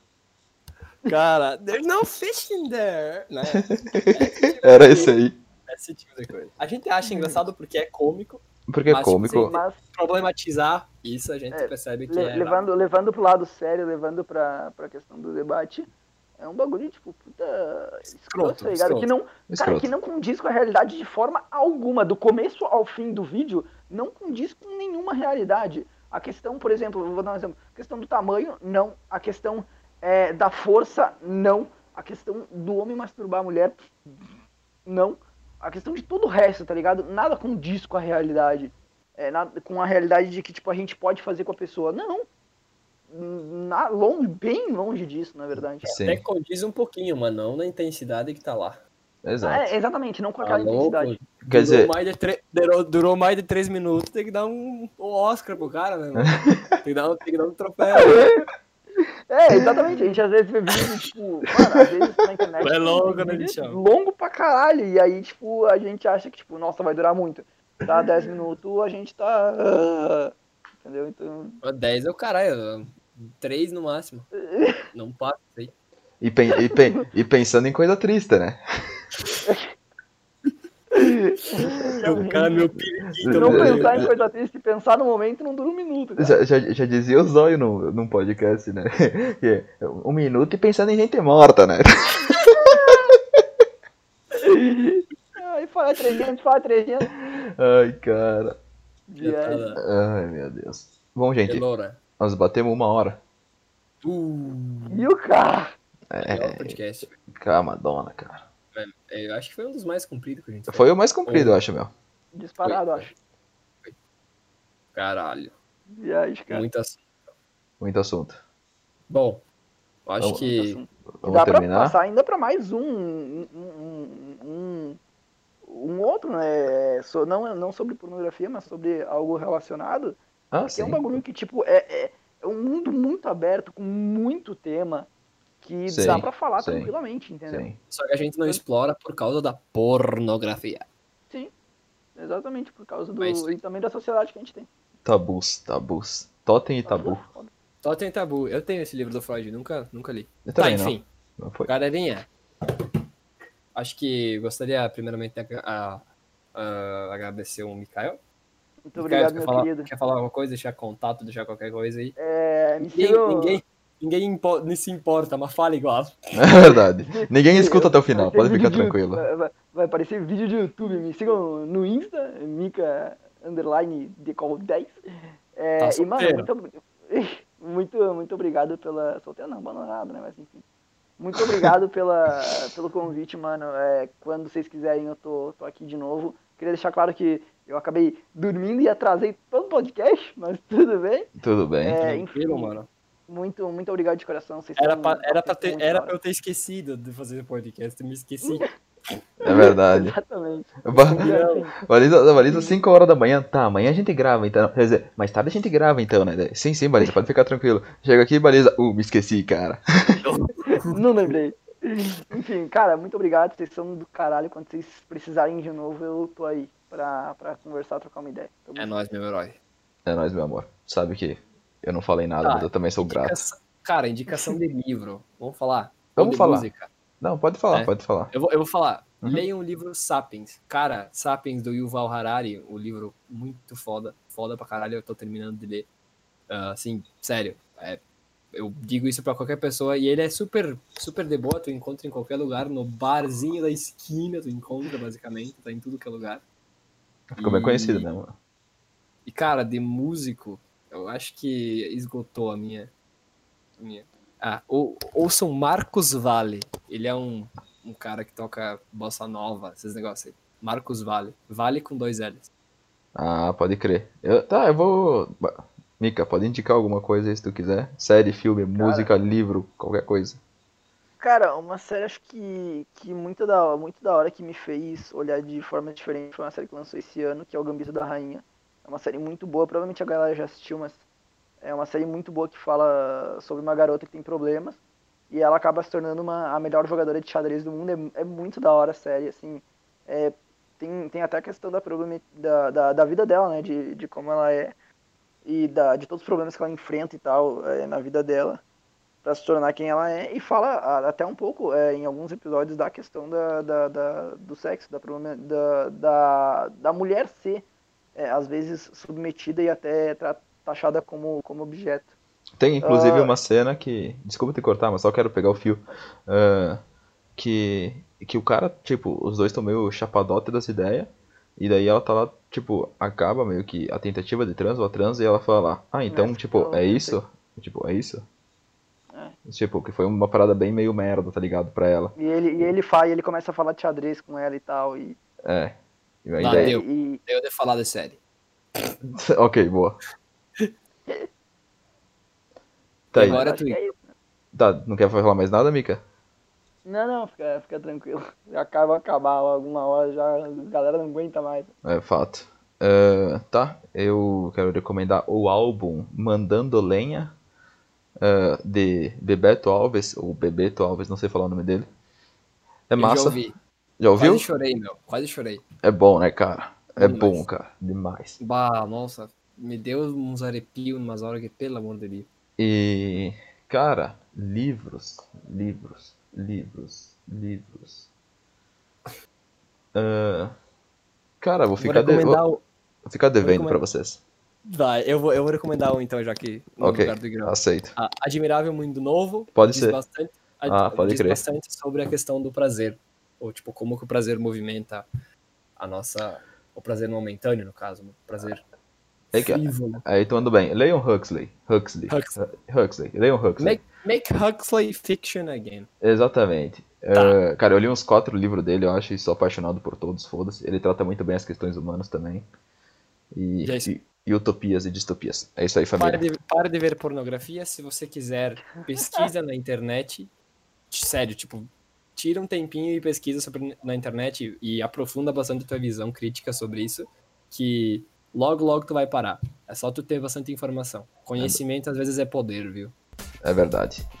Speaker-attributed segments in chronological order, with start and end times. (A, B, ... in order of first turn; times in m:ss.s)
0:01.1-0:05.1 A
0:03.5-0:05.4 B
0:05.7-0:12.7 A
0:07.0-0:07.4 C
0:08.7-0:09.6 B
0:09.4-0:09.8 C
0:11.5-0:33.9 C
0:18.3-0:19.1 A
0:19.5-0:19.9 B
0:34.8-0:42.2 C
0:43.1-0:45.9 C
0:45.8-0:46.2 B
0:46.0-0:48.8 A
0:49.2-0:49.7 B
0:49.4-0:51.2 C
0:50.4-0:58.2 A
0:51.4-0:51.9 B
0:56.2-0:56.7 B
0:57.9-0:58.4 C
0:59.3-1:11.6 C
1:02.6-1:03.8 A
1:11.6-1:14.3 A
1:14.4-1:14.8 C
1:14.9-1:15.7 A
1:16.2-1:18.6 B
1:19.4-1:19.7 C
1:20.9-1:22.7 C
1:21.6-1:24.1 A
1:23.2-1:24.1 B
1:23.3-1:26.4 C
1:26.2-1:33.4 B
1:32.6-1:33.0 C
1:34.4-1:37.2 C
1:37.3-1:38.6 B
1:39.1-1:39.7 C
1:39.2-1:39.8 A
1:39.8-1:41.6 B
1:41.4-1:42.0 A
1:42.2-1:43.2 B
1:44.0-1:45.1 A
1:44.9-1:45.7 C
1:46.1-1:46.8 B
1:46.2-1:47.2 A
1:47.3-1:48.4 B
1:48.7-1:51.6 A
1:50.7-1:51.9 B
1:52.3-1:53.1 C
1:52.6-1:53.1 A
1:54.9-1:55.5 A
1:55.9-1:56.6 C
1:56.5-1:57.0 A
1:57.8-1:58.4 B
1:59.1-1:59.4 A
2:00.0-2:00.8 A
2:00.4-2:05.0 C
2:01.2-2:02.0 B
2:05.6-2:15.1 C
2:10.5-2:11.2 B
2:15.6-2:17.7 C
2:15.9-2:16.9 B
2:16.0-2:16.2 A
2:17.5-2:17.8 B
2:17.9-2:20.8 A
2:22.2-2:24.7 C
2:23.2-2:23.5 A
2:25.0-2:27.2 B
2:26.8-2:27.5 C
2:27.8-2:31.1 A
2:30.4-2:31.7 B
2:31.7-2:32.3 A
2:33.7-2:36.0 A
2:36.5-2:38.2 A
2:38.9-2:39.9 C
2:38.9-2:42.1 A
2:42.2-2:43.6 C
2:42.8-2:46.4 A
2:46.3-2:49.2 B
2:47.1-2:55.0 C
2:55.5-3:00.6 C
2:55.8-2:56.5 A
3:01.2-3:12.8 C
3:11.4-3:12.0 B
3:12.0-3:12.9 A
3:13.3-3:16.2 C
3:14.8-3:18.7 A
3:18.4-3:18.7 C
3:19.4-3:20.2 B
3:19.4-3:21.8 C
3:20.8-3:21.3 B
3:21.1-3:21.6 A
3:21.9-3:30.2 B
3:22.4-3:22.8 C
3:30.2-3:31.0 A
3:30.8-3:38.9 C
3:38.8-3:39.6 A
3:40.0-3:43.4 B
3:42.4-3:46.9 A
3:46.2-3:46.7 B
3:47.2-3:48.3 B
3:47.7-3:55.9 A
3:56.5-3:58.0 A
3:58.5-4:06.4 A
4:07.3-4:08.3 B
4:07.4-4:08.1 A
4:09.2-4:12.9 A
4:13.8-4:22.5 A
4:23.2-4:30.4 B
4:28.7-4:29.1 C
4:31.2-4:41.0 C
4:41.6-4:44.8 C
4:45.3-4:54.7 C
4:55.4-4:58.6 C
4:59.2-5:12.1 C
5:12.6-5:16.8 B
5:12.8-5:13.3 C
5:17.4-5:28.2 B
5:26.1-5:27.2 C
5:29.4-5:32.1 B
5:32.2-5:35.2 C
5:35.4-5:36.7 B
5:36.4-5:38.2 A
5:36.4-5:37.2 C
5:39.0-5:40.0 B
5:43.1-5:43.4 B
5:43.1-5:43.8 A
5:43.2-5:44.1 C
5:44.5-5:46.0 B
5:46.8-5:51.7 C
5:51.8-5:57.3 B
5:58.2-6:01.9 B
6:02.9-6:03.4 B
6:03.0-6:03.6 A
6:04.0-6:04.5 B
6:04.2-6:05.6 A
6:05.8-6:08.4 B
6:07.0-6:07.4 A
6:08.4-6:12.3 A
6:12.6-6:18.1 B
6:19.9-6:20.5 B
6:21.4-6:22.4 B
6:21.8-6:22.6 A
6:23.0-6:24.2 B
6:23.4-6:23.8 A
6:24.6-6:35.0 A
6:26.8-6:27.9 B
6:29.5-6:30.0 B
6:30.6-6:31.4 B
6:35.8-6:38.6 A
6:39.3-6:40.0 A
6:39.3-6:43.8 B
6:42.1-6:42.4 A
6:43.6-6:45.9 A
6:46.0-6:52.4 B
6:47.1-6:47.4 A
6:53.3-6:56.3 B
6:53.6-6:53.9 A
6:56.0-7:00.3 A
6:59.0-6:59.3 C
7:00.9-7:12.9 A
7:13.4-7:14.0 B